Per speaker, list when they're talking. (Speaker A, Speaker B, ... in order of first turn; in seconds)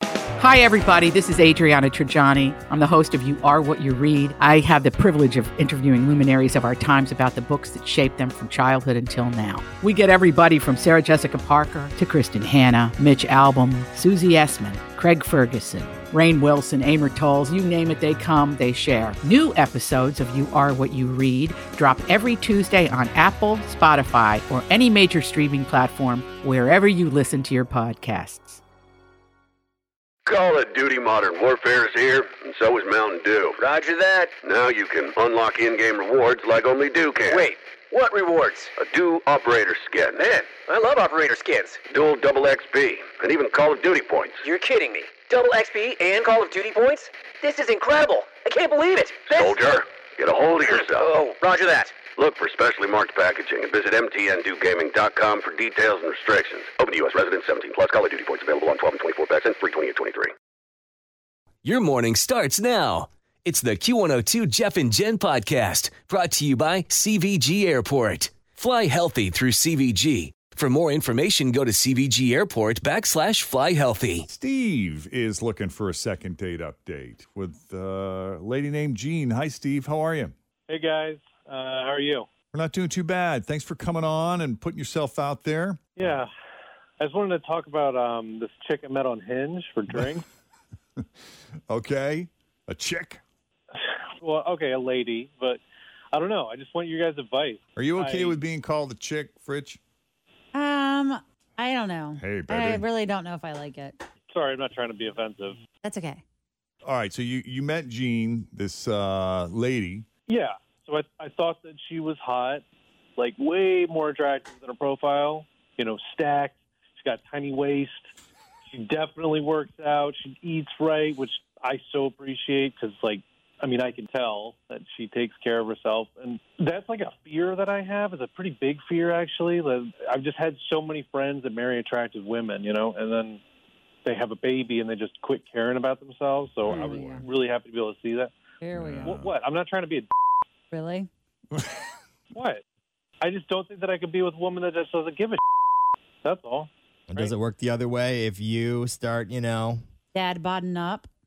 Speaker A: 0.4-28.6
Speaker B: 30.2-33.6, 34.4-37.5, 38.8-40.3, 41.9-44.4, 49.2-51.3, 52.1-60.3
Speaker C: 33.6-34.3, 37.3-38.7, 40.3-41.8, 44.4-49.5, 51.0-52.0
Speaker D: 61.6-74.2
Speaker E: 74.2-80.3, 82.5-86.2, 89.9-90.2, 91.7-93.2, 97.8-99.8, 102.2-102.9, 106.8-110.1, 138.7-139.3
Speaker F: 80.7-82.2, 86.0-86.3, 87.0-90.2, 93.7-95.6, 96.1-98.4, 104.3-105.6, 110.3-112.6, 113.2-118.1, 118.7-133.4, 134.0-138.3, 139.0-140.1, 142.3-142.6, 143.2-145.4, 146.2-147.3
Speaker G: 100.5-104.0, 105.8-106.2, 136.6-137.2, 138.6-139.2, 140.7-141.1, 150.1-151.1
Speaker H: 147.1-149.8